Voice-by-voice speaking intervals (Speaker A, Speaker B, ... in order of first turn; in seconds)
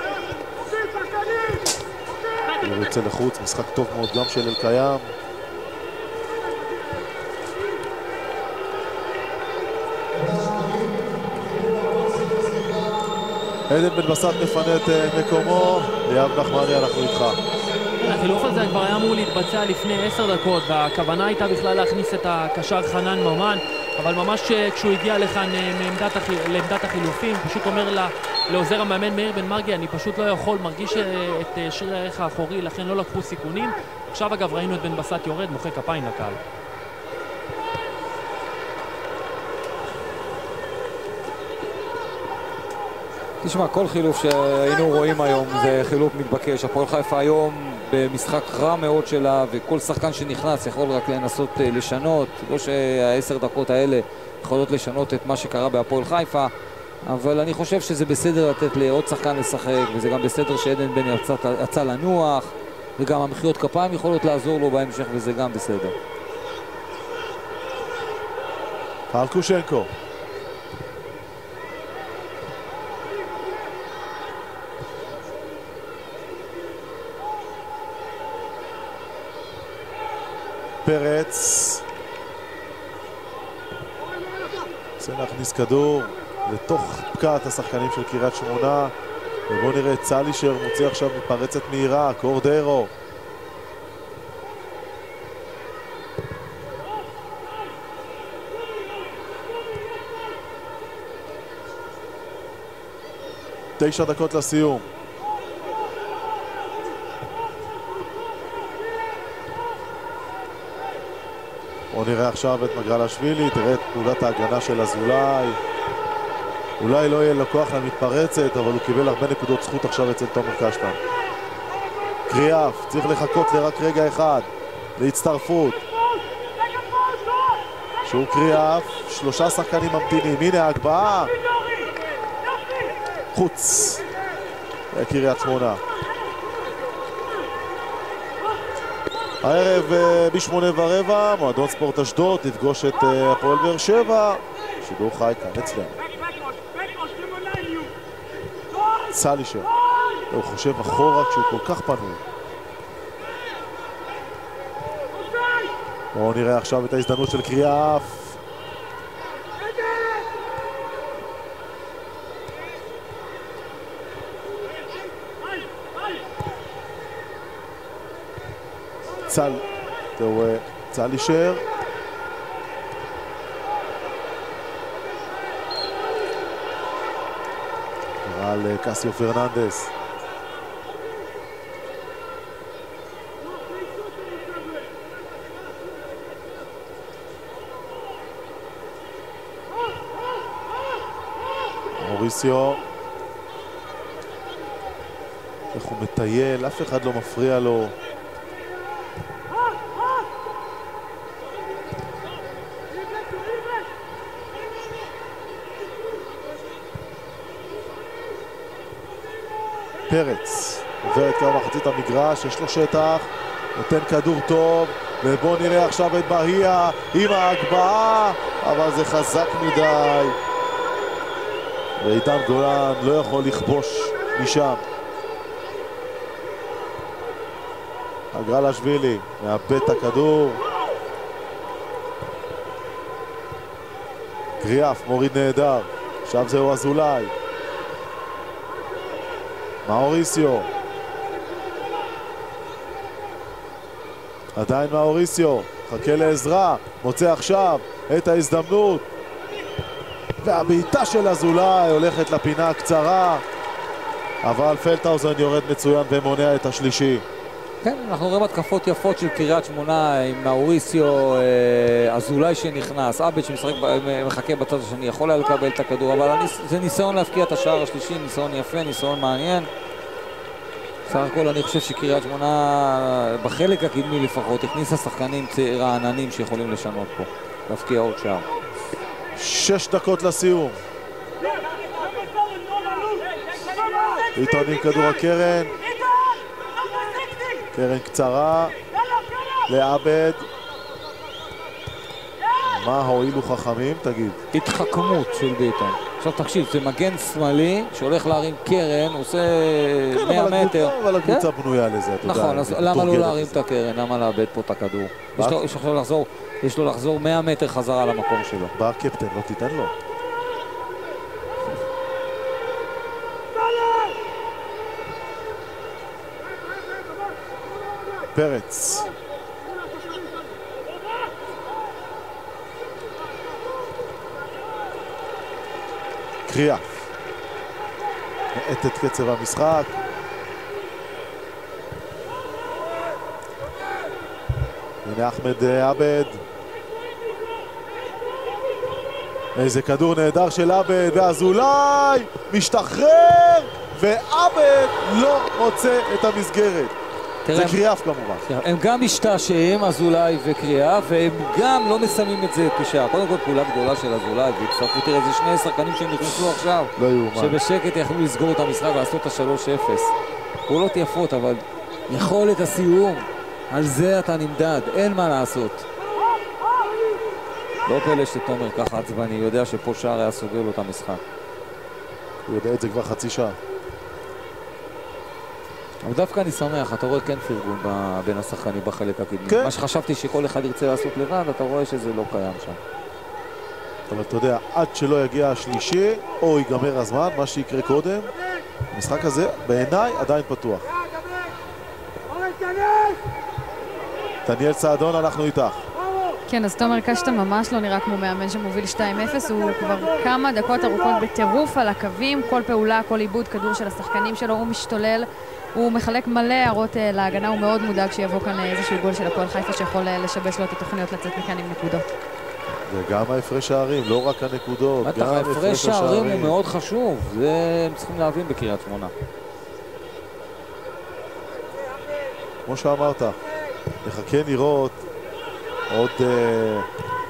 Speaker A: 2.6-5.1, 13.7-17.4, 69.1-69.9, 80.8-81.8, 85.0-88.9, 89.5-92.9, 103.8-104.9, 111.9-115.6, 116.8-121.0, 122.3-125.8, 128.1-131.3, 133.3-134.1, 134.9-135.8, 139.4-146.0, 149.1-149.7, 150.3-152.2, 156.1-158.4, 169.3-169.7, 170.2-171.6, 178.2-179.9, 191.9-192.8, 195.7-197.9, 210.1-220.4, 222.0-224.8, 228.3-230.6, 234.6-237.3, 239.8-240.7, 244.6-249.1, 250.4-253.4, 254.4-257.2, 279.4-280.8, 284.4-285.8, 287.7-288.8, 289.7-290.5, 292.7-294.4, 300.1-303.6, 308.8-309.9, 318.3-319.1, 326.5-327.0, 328.5-329.9, 335.0-336.4, 339.6-346.9, 347.5-348.4, 357.0-357.6, 372.5-373.6, 379.5-379.7, 384.1-388.3, 388.9-390.9, 394.5-395.8, 412.9-416.6, 422.7-423.4, 424.0-425.0, 425.9-426.9
Speaker B: 18.0-36.4
Speaker C: 43.4-56.5, 57.0-66.0, 257.8-269.7, 271.1-278.5, 294.5-301.5, 302.2-308.7, 347.4-347.8, 348.4-360.1, 360.7-365.9, 367.9-371.2, 376.0-382.8, 415.0-419.1
Speaker D: 396.5-412.0